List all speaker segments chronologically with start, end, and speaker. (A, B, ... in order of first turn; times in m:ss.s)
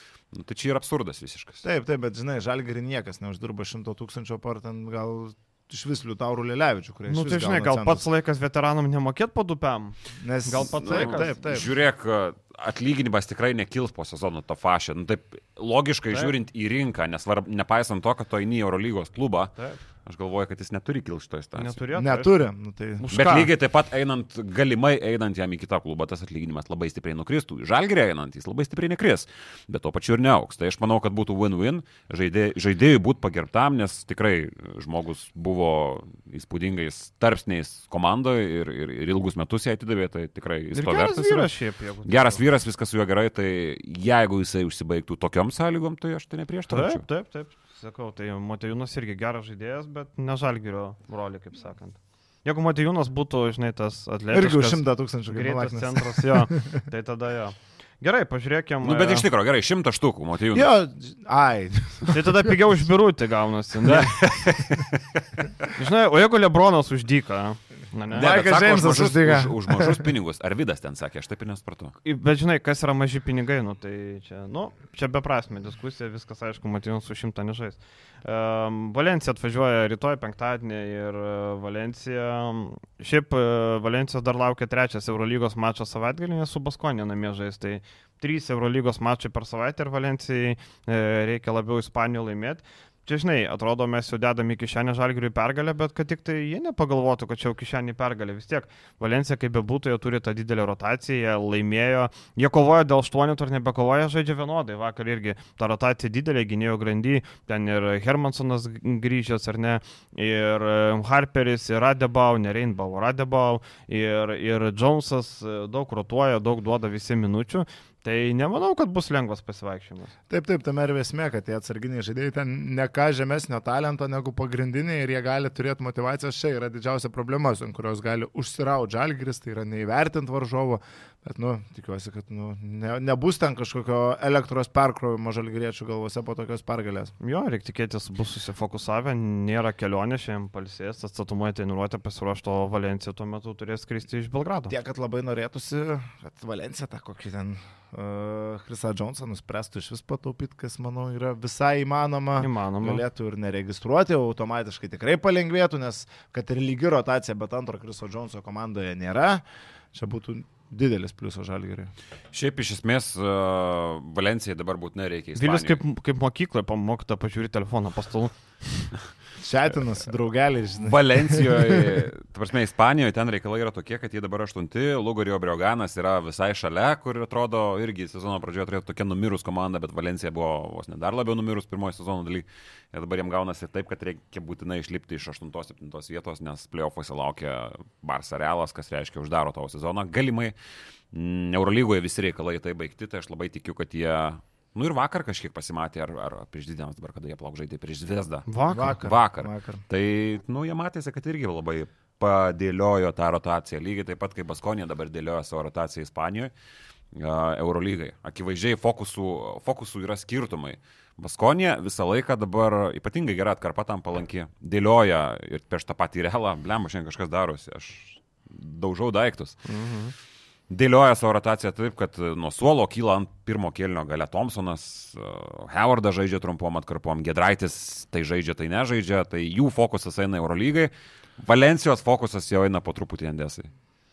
0:00.3-0:01.6 A
0:01.6-0:08.0 B
0:07.1-0:11.4 C
0:10.2-0:11.7 B
0:10.7-0:19.5 A
0:20.0-0:21.8 A
0:21.6-0:22.3 C
0:21.9-0:23.0 B
0:23.0-0:23.5 C
0:23.1-0:41.5 A
0:40.8-0:42.4 C
0:42.0-0:47.0 A
0:46.7-0:59.3 C
0:54.3-0:56.8 B
0:58.8-1:00.7 A
1:00.5-1:02.6 B
1:02.1-1:04.1 C
1:03.9-1:04.9 A
1:03.9-1:04.8 B
1:05.8-1:08.4 C
1:08.1-1:10.1 B
1:08.2-1:12.0 A
1:12.0-2:00.1 C
2:00.3-2:17.1 B
2:17.2-2:24.7 C
2:24.7-2:41.9 B
2:32.4-2:33.0 C
2:42.3-2:45.8 A
2:45.4-2:48.9 C
2:49.4-2:52.0 B
2:50.8-3:10.5 A
3:11.1-3:26.5 A
3:18.5-3:19.0 C
3:18.7-3:19.8 B
3:27.1-3:39.6 A
3:39.7-3:40.1 C
3:40.7-3:53.7 A